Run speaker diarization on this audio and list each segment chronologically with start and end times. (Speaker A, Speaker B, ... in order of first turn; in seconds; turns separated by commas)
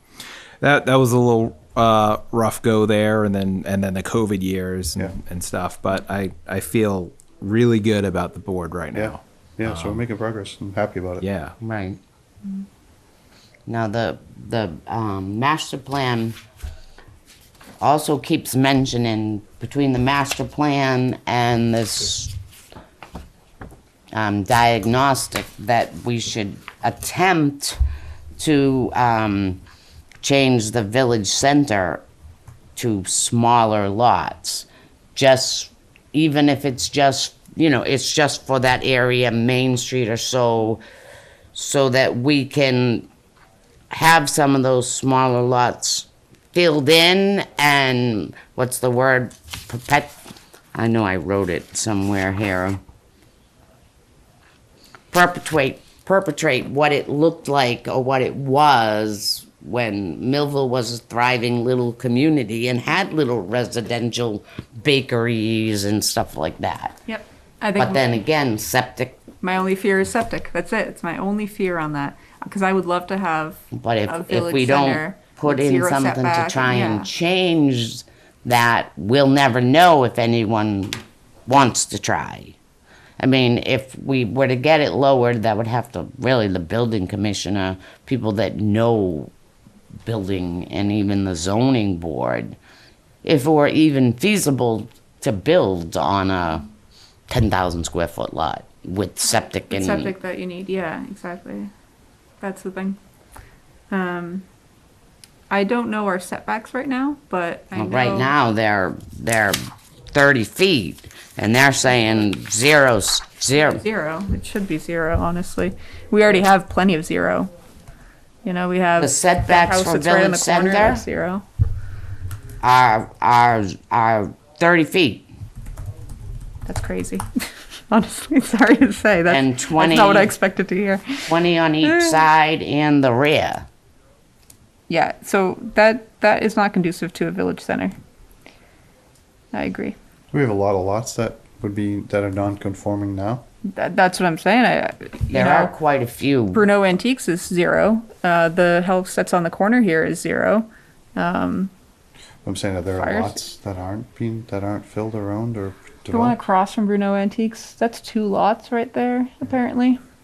Speaker A: 0.6-10.0, Speaker B: 8.9-11.3, Speaker A: 11.2-11.6, Speaker C: 11.6-12.0, Speaker C: 13.7-16.4, Speaker C: 17.8-22.3, Speaker C: 24.1-27.8, Speaker C: 28.4-29.6, Speaker C: 30.2-32.0, Speaker C: 32.8-40.8, Speaker C: 41.5-43.1, Speaker C: 43.9-50.2, Speaker C: 50.7-52.8, Speaker C: 55.1-67.0, Speaker D: 67.1-68.0, Speaker C: 67.8-69.2, Speaker D: 69.4-77.1, Speaker C: 73.7-82.6, Speaker C: 83.2-89.3, Speaker C: 90.0-92.6, Speaker C: 93.2-96.7, Speaker C: 97.3-100.1, Speaker D: 99.7-101.7, Speaker D: 102.4-103.0, Speaker D: 103.9-104.5, Speaker D: 105.5-108.3, Speaker C: 107.8-113.8, Speaker D: 113.6-117.5, Speaker D: 118.4-121.5, Speaker C: 119.0-121.0, Speaker C: 122.6-125.3, Speaker D: 126.7-132.3, Speaker C: 129.3-130.3, Speaker C: 131.3-133.7, Speaker D: 134.9-138.0, Speaker D: 139.5-140.0, Speaker B: 140.3-143.5, Speaker D: 143.7-145.7, Speaker C: 145.3-146.7, Speaker D: 146.5-151.7, Speaker B: 152.4-156.4, Speaker D: 152.9-153.4, Speaker D: 156.1-160.0